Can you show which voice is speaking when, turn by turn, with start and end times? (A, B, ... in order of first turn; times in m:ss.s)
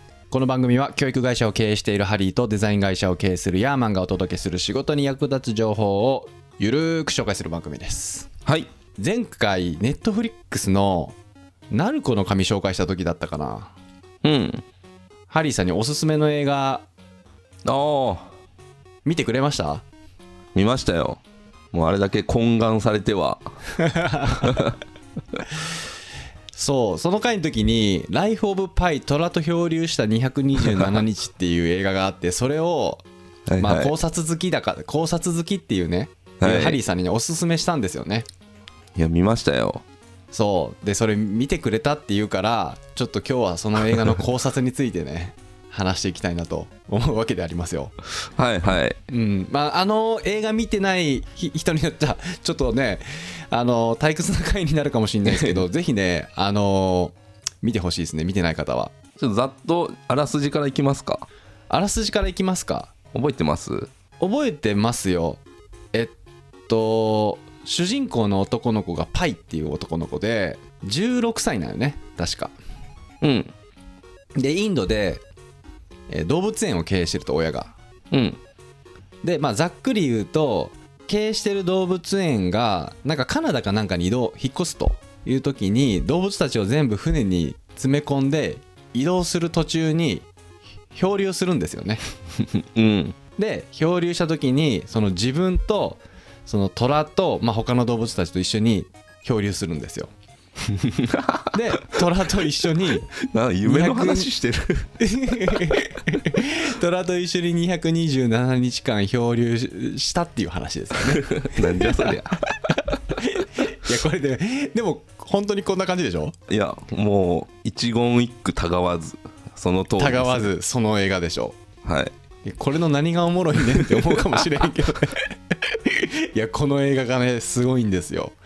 0:00.3-0:08.3 A
0:09.0-0:11.2 A
0:11.7-0:13.7 A
0:14.2-0:14.6 B
0:15.3-0:16.8 A
0:17.6-0:18.3 B
0:19.0-0:19.8 A
0:20.6-0:21.2 B
0:21.7-0:23.4 B
0:23.8-0:24.7 A
0:24.4-0:24.7 B
0:26.6-0:33.0 A
0:33.5-0:33.9 B
0:33.6-0:38.3 A
0:36.4-0:36.8 B
0:39.0-0:39.8 B
0:40.3-0:48.0 A
0:48.3-0:49.0 B
0:49.1-0:58.9 A
0:55.3-0:55.6 B
0:59.2-1:01.3 B
1:01.7-1:02.9 A
1:03.1-1:03.9 B
1:04.2-1:05.4 A
1:06.7-1:12.6 A
1:13.2-1:13.5 B
1:14.4-1:15.2 A
1:16.1-1:17.7 A
1:18.1-1:18.4 B
1:19.2-1:30.3 A
1:30.9-1:32.0 A
1:32.5-1:33.2 B
1:33.4-1:40.1 A
1:40.6-1:41.6 B
1:41.5-1:43.1 A
1:42.9-1:44.9 B
1:43.6-1:44.3 A
1:45.0-1:56.4 A
1:45.5-1:45.8 B
1:51.1-1:52.5 B
1:56.5-2:00.5 B
2:00.0-2:01.6 A
2:01.8-2:02.1 B
2:02.4-2:08.4 A
2:03.8-2:04.4 B